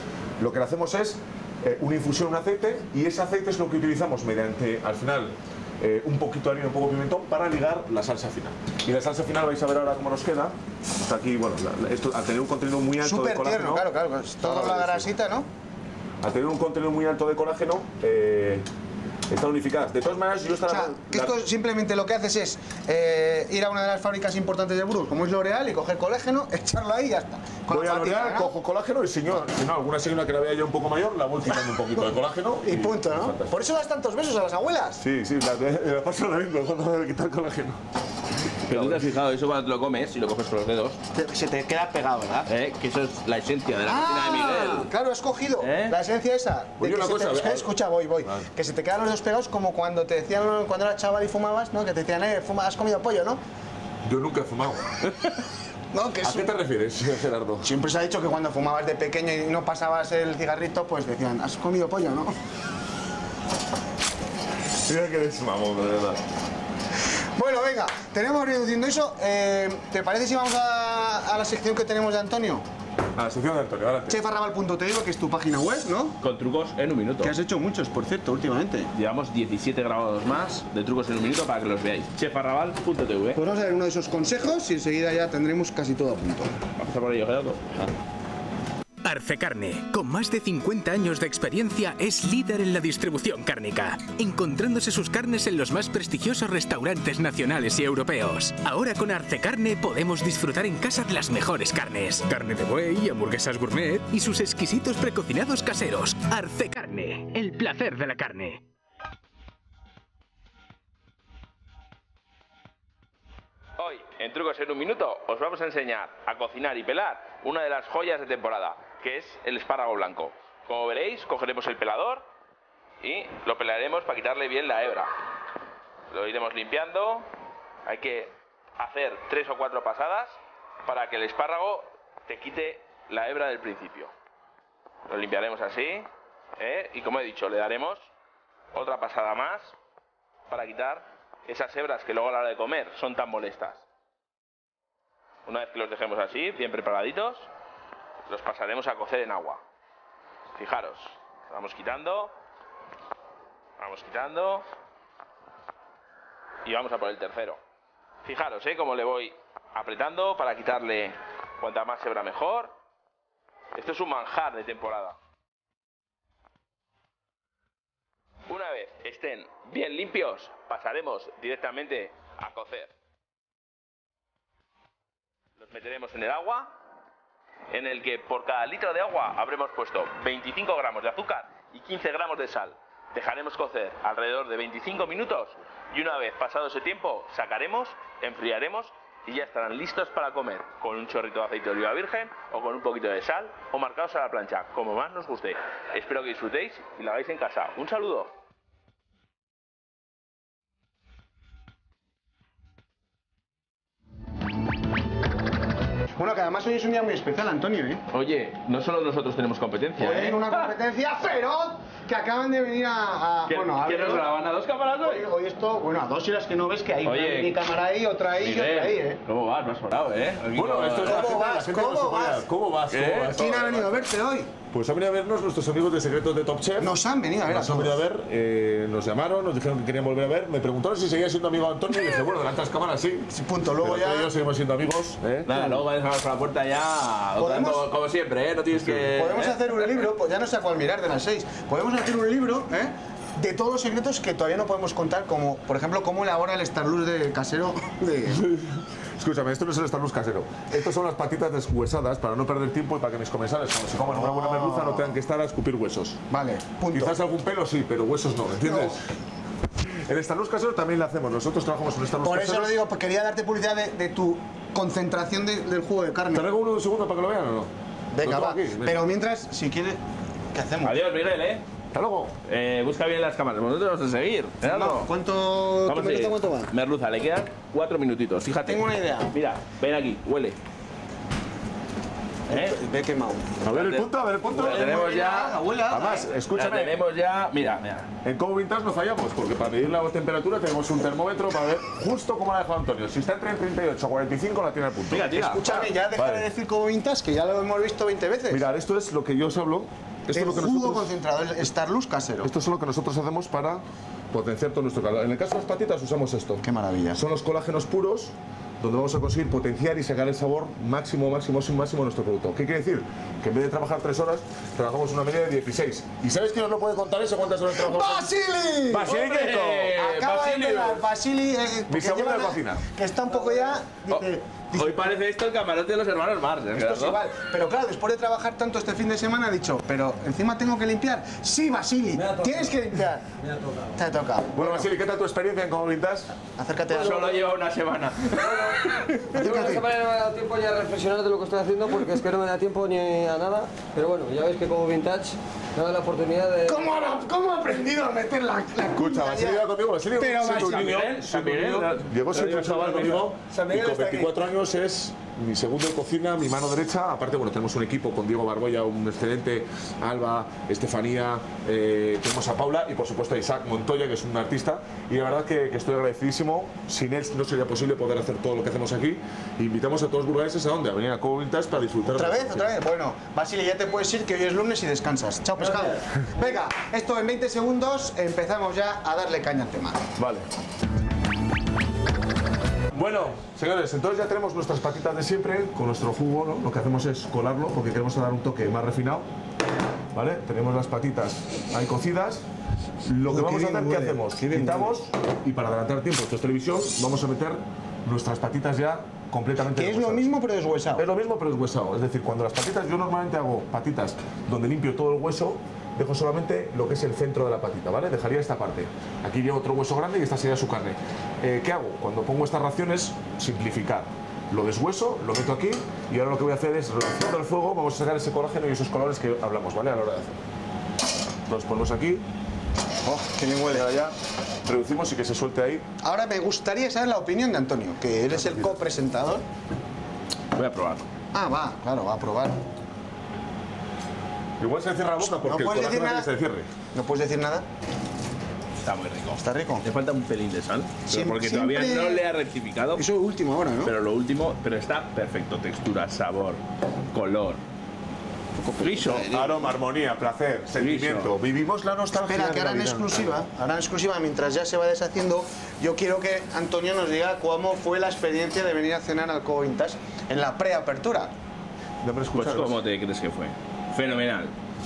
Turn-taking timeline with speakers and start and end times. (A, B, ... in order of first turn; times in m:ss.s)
0:00.4-0:13.9 A
0:13.0-0:15.5 B
0:14.4-0:15.1 A
0:16.2-0:18.6 A
0:19.3-0:21.4 A
0:20.7-0:28.5 B
0:27.7-0:33.6 A
0:32.6-0:35.0 B
0:35.0-0:37.8 A
0:38.7-0:39.2 A
0:38.7-0:41.0 C
0:41.1-0:42.5 B
0:42.5-0:44.9 C
0:43.8-0:53.4 B
0:45.6-0:46.0 C
0:46.8-0:47.7 A
0:54.0-0:55.0 A
0:55.1-0:55.3 C
0:55.9-0:56.6 B
0:56.2-0:57.7 A
0:57.6-1:02.4 B
1:04.8-1:06.2 A
1:07.4-1:12.6 B
1:13.2-1:14.2 A
1:14.1-1:16.2 B
1:16.2-1:17.3 C
1:17.2-1:18.9 B
1:19.0-1:23.4 C
1:23.4-1:26.5 B
1:26.8-1:27.9 C
1:29.0-1:48.6 D
1:53.8-2:02.3 C
2:03.0-2:05.1 C
2:06.1-2:07.3 C
2:07.9-2:14.1 C
2:15.1-2:18.1 C
2:18.7-2:19.8 C
2:20.5-2:23.8 C
2:25.5-2:27.5 C
2:28.3-2:29.6 C
2:30.6-2:32.3 C
2:33.8-2:34.6 C
2:36.6-2:37.6 C
2:38.2-2:42.8 C
2:43.7-2:45.2 C
2:48.5-2:52.9 C
2:55.6-2:56.8 C
2:57.7-3:18.3 C
3:26.2-3:28.0 B
3:28.1-3:30.7 C
3:30.0-3:34.3 B
3:33.5-3:35.3 C
3:35.0-3:39.2 B
3:37.0-3:37.5 C
3:38.4-3:41.4 C
3:40.5-3:44.0 A
3:41.0-3:42.4 B
3:42.9-3:43.4 C
3:43.3-3:44.5 B
3:44.7-3:55.5 A
3:46.8-3:48.0 B
3:53.3-3:54.3 B
3:55.5-3:59.6 C
3:57.4-3:57.8 B
3:58.7-3:59.0 A
3:59.1-4:08.5 B
4:08.3-4:16.2 A
4:14.0-4:15.1 B
4:16.3-4:17.2 B
4:16.9-4:19.0 A
4:18.6-4:19.0 B
4:19.8-4:22.8 A
4:22.2-4:26.5 B
4:26.3-4:27.7 A
4:28.1-4:30.0 B
4:28.2-4:29.0 A
4:30.5-4:31.0 B
4:30.8-4:31.6 C
4:31.9-4:32.3 A
4:32.5-4:35.1 C
4:34.6-4:36.7 B
4:35.9-4:40.6 C
4:38.6-4:39.3 B
4:42.5-4:42.8 C
4:42.5-4:43.5 B
4:43.6-4:45.2 A
4:43.7-4:45.6 C
4:44.6-4:46.3 B
4:45.9-4:47.0 A
4:46.5-4:48.1 C
4:48.2-4:56.5 A
4:55.1-4:55.8 C
4:55.2-4:58.7 B
4:58.5-5:01.1 A
5:00.3-5:02.5 B
5:02.4-5:18.3 A
5:06.6-5:07.2 B
5:17.7-5:19.2 B
5:18.9-5:19.9 A
5:19.0-5:21.1 C
5:19.9-5:25.1 B
5:21.9-5:22.8 A
5:24.1-5:27.2 C
5:26.8-5:33.3 B
5:32.3-5:32.6 E
5:33.4-5:33.9 E
5:34.0-5:34.9 B
5:34.5-5:36.3 A
5:36.6-5:37.4 B
5:36.9-5:39.0 C
5:38.3-5:47.0 E
5:39.3-5:39.9 B
5:46.7-5:51.1 B
5:48.9-6:12.8 A
5:50.4-5:53.3 C
5:53.5-5:54.3 B
6:12.1-6:20.0 B
6:20.2-6:20.4 C
6:22.9-6:29.3 A
6:30.1-6:32.4 A
6:33.0-6:40.3 A
6:33.3-6:34.9 B
6:39.7-6:41.0 B
6:41.0-7:00.4 A
7:01.5-7:02.2 A
7:03.0-7:03.9 B
7:03.7-7:04.1 A
7:04.6-7:05.8 A
7:06.0-7:09.4 B
7:08.3-7:08.8 A
7:10.5-7:11.1 C
7:11.3-7:12.6 B
7:14.6-7:16.7 A
7:15.3-7:16.3 B
7:16.9-7:17.7 B
7:18.8-7:23.0 C
7:19.4-7:19.8 B
7:21.1-7:22.2 B
7:23.0-7:23.9 B
7:23.8-7:26.6 C
7:27.1-7:27.6 C
7:28.6-7:29.5 B
7:28.8-7:29.5 C
7:29.3-7:33.1 A
7:30.8-7:31.3 C
7:32.1-7:41.3 B
7:42.0-7:42.8 A
7:42.3-7:44.5 C